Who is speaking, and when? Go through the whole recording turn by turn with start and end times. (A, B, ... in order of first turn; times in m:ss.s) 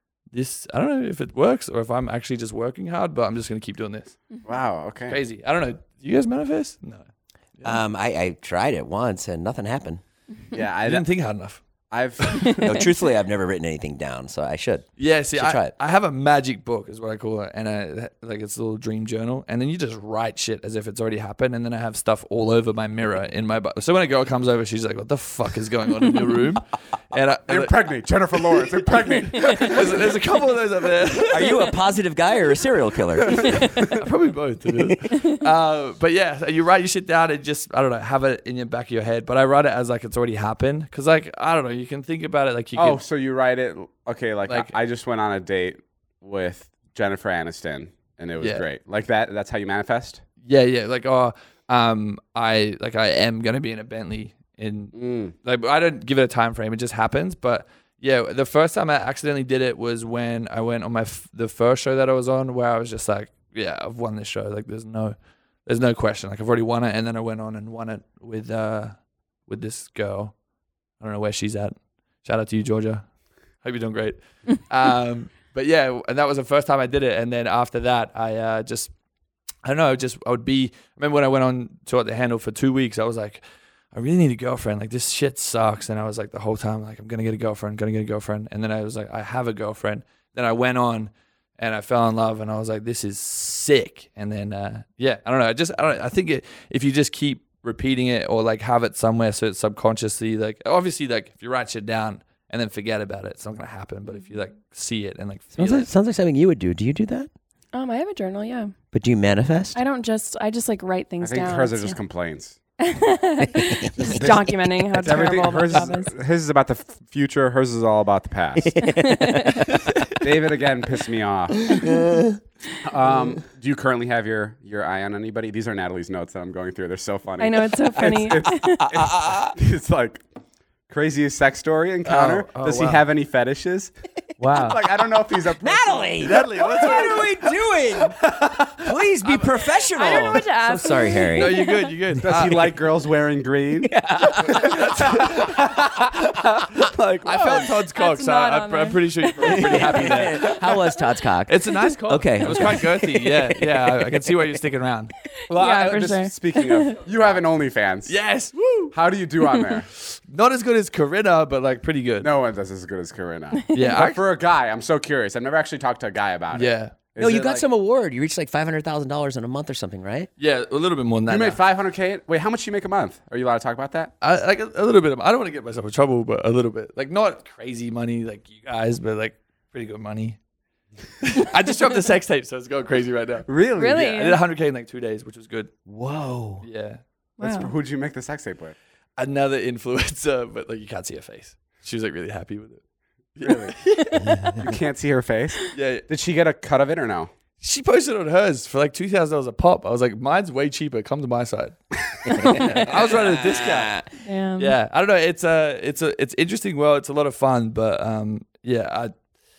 0:00.3-0:04.2 A
0:04.4-0:05.2 B
0:05.1-0:07.0 A
0:07.6-0:10.0 C
0:10.5-0:11.1 B
0:10.8-0:11.6 A
0:11.9-0:12.6 B
0:12.2-0:12.6 A
0:12.6-0:15.7 C
0:15.0-0:27.9 A
0:27.5-0:30.0 B
0:29.2-0:31.7 A
0:31.3-0:33.6 C
0:33.9-0:43.0 A
0:42.8-0:50.2 B
0:44.5-0:44.7 A
0:50.4-1:10.3 A
0:54.9-0:55.3 B
1:11.0-1:13.0 A
1:13.6-1:18.9 A
1:19.6-1:23.4 A
1:23.9-1:45.9 A
1:45.6-1:47.3 C
1:47.7-1:48.7 D
1:48.9-1:49.8 C
1:49.7-1:52.0 D
1:51.2-1:52.6 B
1:52.8-1:56.1 D
1:53.9-1:54.2 C
1:54.0-1:58.8 B
1:58.6-1:59.8 C
1:59.0-1:59.7 D
2:00.2-2:01.8 B
2:01.7-2:02.2 C
2:02.8-2:10.2 B
2:07.4-2:08.9 D
2:08.8-2:09.5 C
2:10.9-2:16.3 B
2:12.0-2:13.0 A
2:15.6-2:21.6 C
2:16.2-2:17.5 A
2:19.2-2:19.5 A
2:19.9-2:21.9 D
2:20.1-2:20.4 A
2:21.3-2:22.8 A
2:22.2-2:23.9 B
2:23.8-2:24.8 C
2:24.4-2:25.8 A
2:25.2-2:25.7 B
2:26.7-2:30.8 A
2:27.0-2:27.7 B
2:27.4-2:30.6 D
2:29.5-2:34.1 C
2:31.5-2:35.1 A
2:35.5-2:38.2 B
2:35.5-2:37.0 D
2:38.1-2:38.9 A
2:38.9-2:39.9 B
2:40.0-2:42.3 A
2:42.2-2:47.6 B
2:43.7-2:44.2 A
2:46.5-2:46.9 A
2:47.2-2:50.3 C
2:50.4-2:51.6 A
2:51.3-2:54.1 B
2:54.2-3:00.4 A
3:01.2-3:05.7 A
3:03.5-3:04.0 B
3:03.7-3:04.4 D
3:05.8-3:06.6 C
3:06.6-3:07.0 A
3:07.4-3:07.7 D
3:07.4-3:08.8 B
3:09.2-3:12.8 A
3:13.3-3:14.6 A
3:13.4-3:13.7 B
3:14.6-3:17.3 B
3:15.7-3:16.0 A
3:17.6-3:21.8 A
3:22.3-3:24.0 A
3:23.1-3:24.1 C
3:24.2-3:24.8 D
3:24.6-3:29.1 A